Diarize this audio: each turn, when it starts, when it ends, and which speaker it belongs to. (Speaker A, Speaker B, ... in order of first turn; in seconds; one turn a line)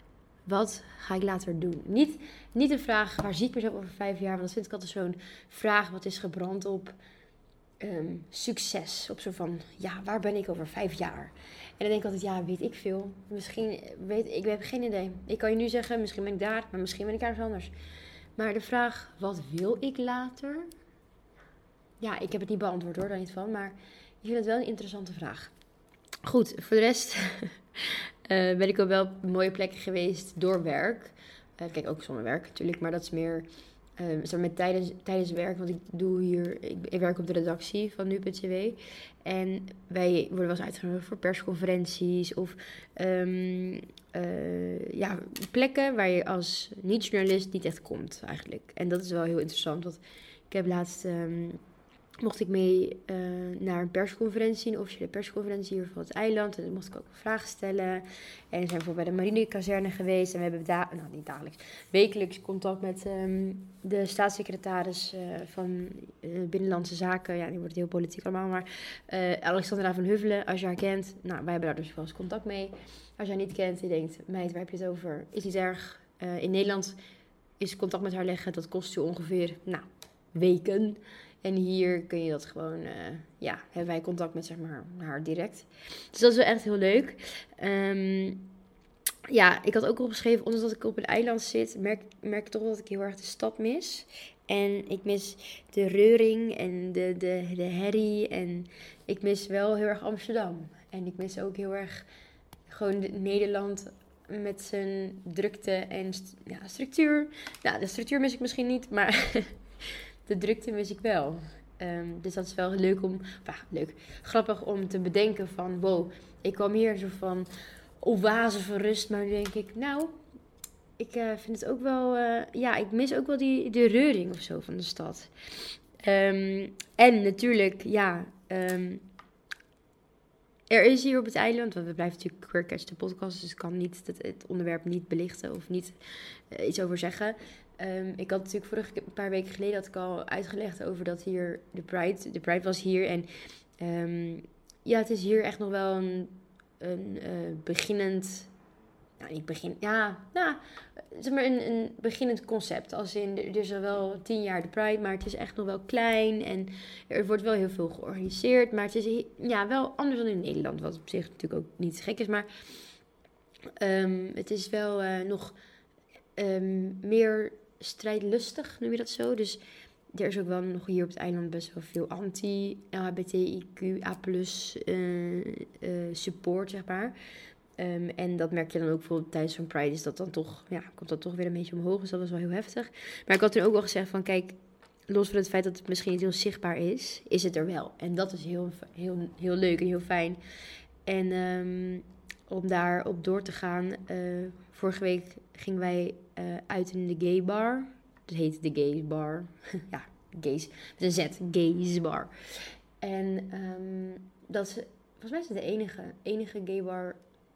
Speaker A: 0.5-7.0
Speaker A: 7.8-17.7
Speaker A: 18.4-20.7
Speaker A: 22.0-25.5
Speaker A: 26.2-33.5
Speaker A: 34.0-51.6
Speaker A: 52.2-77.0
Speaker A: 77.6-88.5
Speaker A: 89.3-102.0
Speaker A: 102.7-109.6
Speaker A: 110.3-117.5
Speaker A: 118.0-120.2
Speaker A: 121.0-129.1
Speaker A: 130.7-135.9
Speaker A: 136.5-143.3
Speaker A: 143.8-148.5
Speaker A: 149.2-162.5
Speaker A: 163.8-165.6
Speaker A: 166.4-169.6
Speaker A: 170.1-177.2
Speaker A: 177.8-184.6
Speaker A: 185.1-190.4
Speaker A: 191.1-207.2